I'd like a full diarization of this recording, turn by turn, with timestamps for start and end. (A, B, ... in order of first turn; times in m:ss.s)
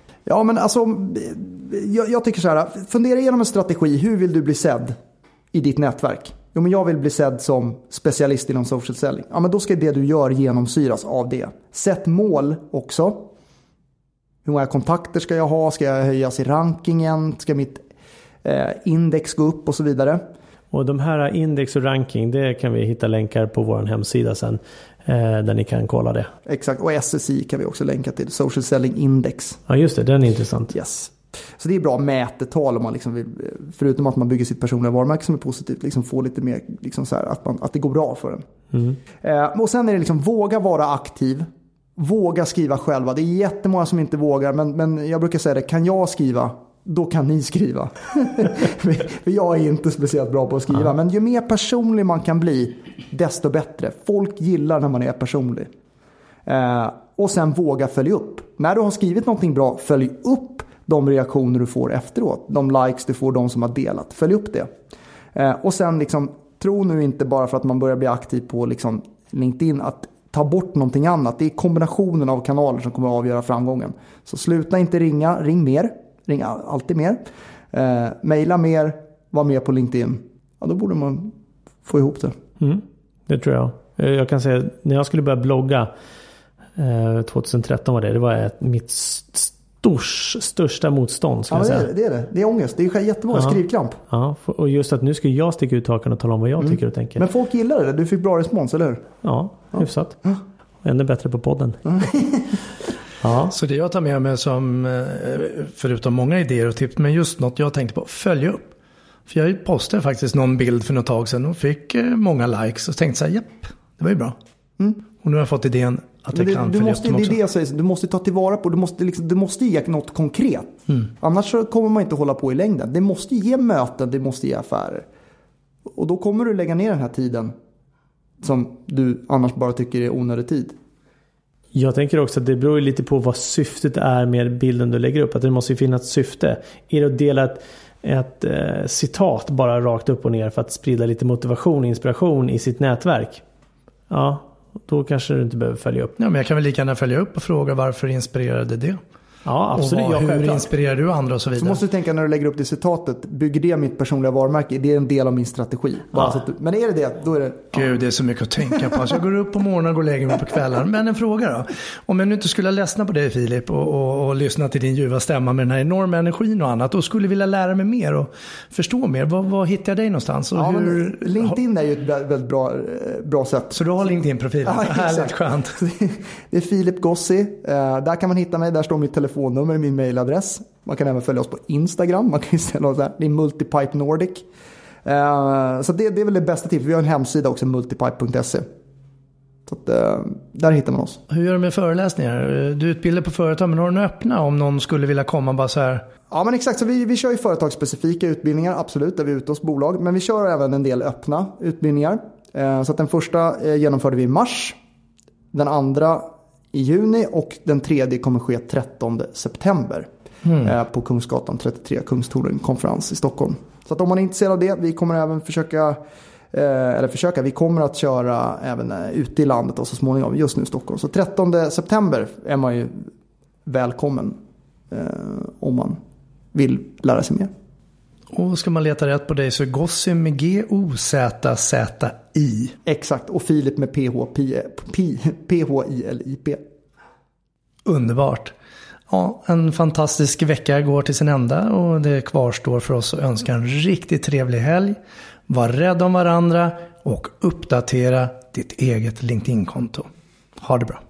0:00.2-0:05.0 A
0:05.5-0:13.3 A
0:14.4-0:17.8 A
0:18.4-0:20.2 A
0:20.7-0:26.3 B
0:26.4-0:29.6 A
0:29.7-0:30.7 B
0:30.7-0:38.4 A
0:38.7-0:39.0 B
0:39.2-0:55.7 A
0:56.4-1:04.7 A
1:05.3-1:17.2 A
1:17.7-1:21.3 A
1:21.8-1:22.3 A
1:22.6-1:25.9 B
1:26.8-1:31.9 B
1:31.5-1:34.0 A
1:33.3-1:37.2 B
1:36.6-1:39.0 A
1:39.2-1:40.2 B
1:39.7-1:40.4 A
1:40.8-1:41.8 B
1:41.8-1:42.6 A
1:43.2-1:43.5 B
1:43.5-1:48.6 C
1:49.3-1:54.3 C
1:55.2-1:57.4 C
1:56.3-2:05.0 A
2:05.9-2:07.5 A
2:08.4-2:10.7 A
2:11.7-2:23.4 B
2:24.1-2:26.2 B
2:26.2-2:29.0 C
2:29.4-2:30.7 B
2:29.7-2:31.8 C
2:31.6-2:37.9 A
2:37.7-2:51.6 C
2:38.7-2:39.1 A
2:50.5-2:53.8 A
2:53.7-2:55.8 C
2:54.6-3:04.4 A
3:05.0-3:08.6 A
3:09.6-3:11.2 A
3:11.3-3:16.0 C
3:16.3-3:24.8 A
3:25.5-3:30.1 A
3:30.4-3:30.7 C
3:30.6-3:36.0 A
3:36.5-3:43.1 A
3:43.6-3:44.4 A
3:44.9-3:46.0 A
3:46.5-3:47.5 A
3:48.3-3:52.7 C
3:52.8-3:56.6 A
3:57.8-3:58.5 C
3:59.1-4:05.0 C
4:05.5-4:10.1 C
4:10.6-4:11.0 C